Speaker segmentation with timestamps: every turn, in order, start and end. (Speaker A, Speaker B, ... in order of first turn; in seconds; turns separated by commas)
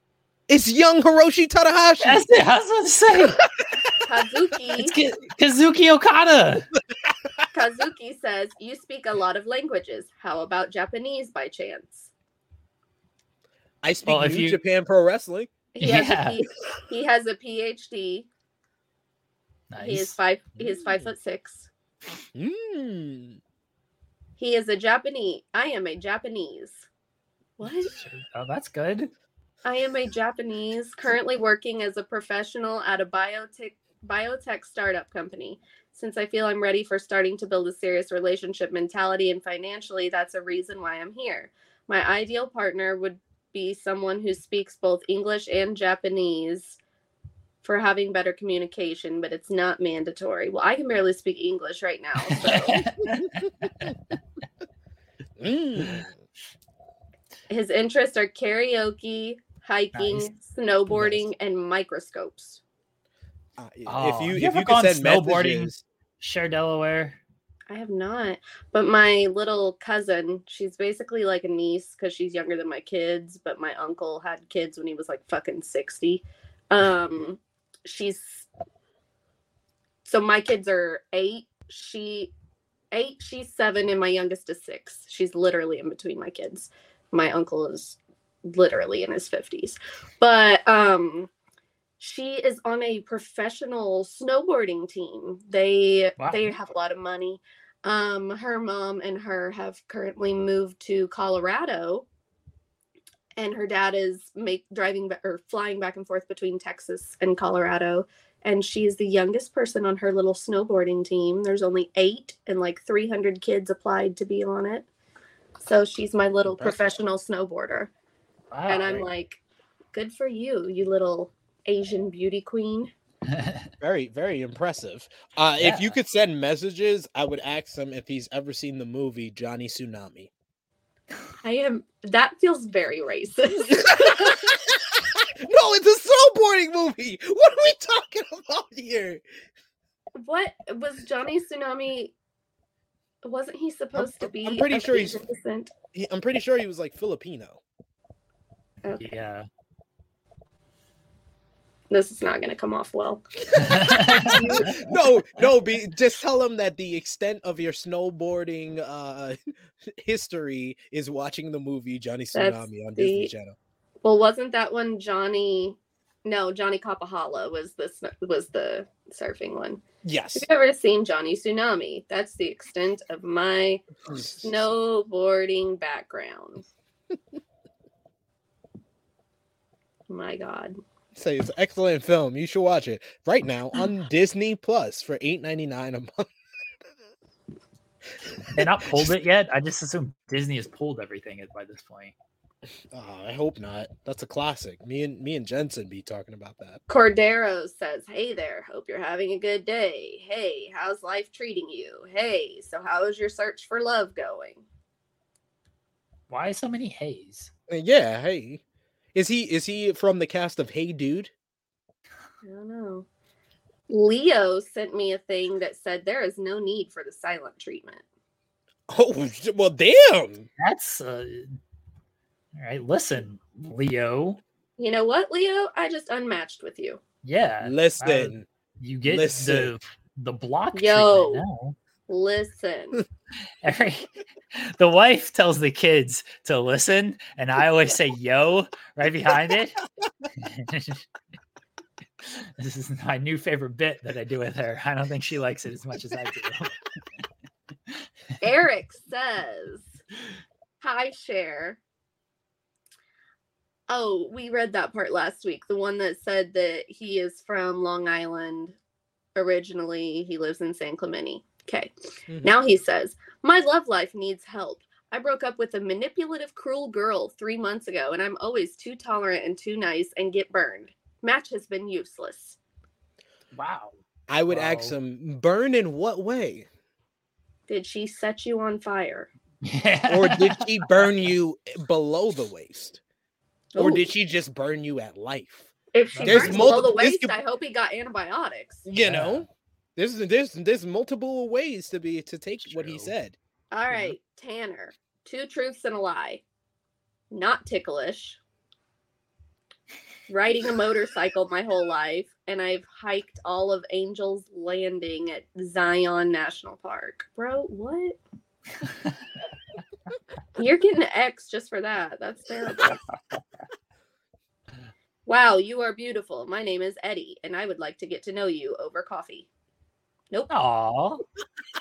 Speaker A: 0.5-2.2, Speaker B: 2.0-3.4, Speaker C: 4.0-5.0, Speaker B: 4.8-6.7, Speaker C: 7.5-12.1, Speaker A: 13.8-15.5, Speaker B: 14.1-14.6, Speaker C: 15.7-18.3, Speaker B: 15.8-16.4, Speaker B: 19.7-20.1, Speaker C: 19.8-21.7, Speaker A: 22.3-23.4, Speaker C: 24.4-26.9, Speaker C: 27.6-27.9, Speaker B: 27.8-29.1, Speaker C: 29.6-46.8, Speaker C: 47.6-53.0, Speaker B: 52.4-53.9, Speaker A: 55.4-56.1, Speaker B: 55.8-56.0, Speaker C: 57.5-62.6, Speaker B: 59.9-60.3, Speaker B: 60.9-61.2, Speaker A: 63.6-65.8, Speaker B: 63.9-67.2, Speaker C: 67.7-78.5, Speaker C: 80.0-82.3, Speaker C: 82.9-91.3, Speaker C: 92.0-102.0, Speaker B: 96.2-96.5, Speaker C: 103.3-114.9, Speaker C: 115.6-117.9, Speaker A: 116.5-117.0, Speaker B: 118.5-119.1, Speaker C: 118.7-119.4, Speaker C: 119.9-122.9, Speaker B: 123.3-123.7, Speaker A: 123.8-130.3, Speaker B: 125.6-126.0, Speaker C: 131.4-134.5, Speaker A: 133.7-139.2, Speaker C: 140.2-142.1, Speaker C: 143.2-145.7, Speaker A: 143.9-145.2, Speaker A: 145.9-147.6, Speaker B: 149.0-149.5, Speaker C: 151.9-154.6, Speaker B: 153.6-154.7, Speaker A: 153.9-163.6, Speaker C: 162.3-163.3, Speaker C: 164.0-169.8, Speaker A: 170.0-170.4, Speaker C: 170.3-173.8, Speaker A: 174.1-174.7, Speaker C: 174.4-176.6, Speaker C: 180.1-180.8, Speaker A: 181.1-186.3, Speaker B: 188.5-192.1, Speaker A: 188.6-189.0, Speaker A: 192.9-196.8, Speaker C: 196.9-204.6, Speaker B: 206.3-207.5, Speaker A: 207.7-208.6, Speaker A: 209.1-211.3, Speaker C: 212.4-213.1, Speaker C: 213.9-218.0, Speaker A: 218.9-220.5, Speaker B: 220.6-221.6, Speaker B: 222.5-224.4, Speaker C: 224.8-227.0, Speaker B: 227.2-231.7, Speaker A: 227.6-228.5, Speaker A: 229.1-229.7, Speaker C: 230.7-231.4, Speaker C: 232.1-233.0, Speaker B: 233.6-239.8, Speaker B: 240.4-241.1, Speaker B: 242.2-246.7, Speaker C: 248.4-250.0, Speaker C: 250.8-251.8, Speaker C: 253.9-258.8, Speaker C: 259.3-272.6, Speaker A: 262.3-262.5, Speaker B: 273.5-273.9, Speaker A: 274.3-276.7, Speaker B: 274.5-274.9, Speaker C: 277.7-279.3, Speaker B: 279.6-281.1, Speaker A: 280.1-283.0, Speaker C: 283.7-284.1, Speaker A: 283.8-287.3, Speaker C: 285.9-288.9, Speaker B: 286.1-286.9, Speaker A: 288.9-293.4, Speaker B: 289.0-289.4, Speaker B: 292.6-293.1, Speaker C: 293.7-296.4, Speaker C: 297.3-298.4, Speaker C: 300.3-308.2, Speaker C: 310.6-313.0, Speaker C: 315.2-319.5, Speaker B: 320.5-321.2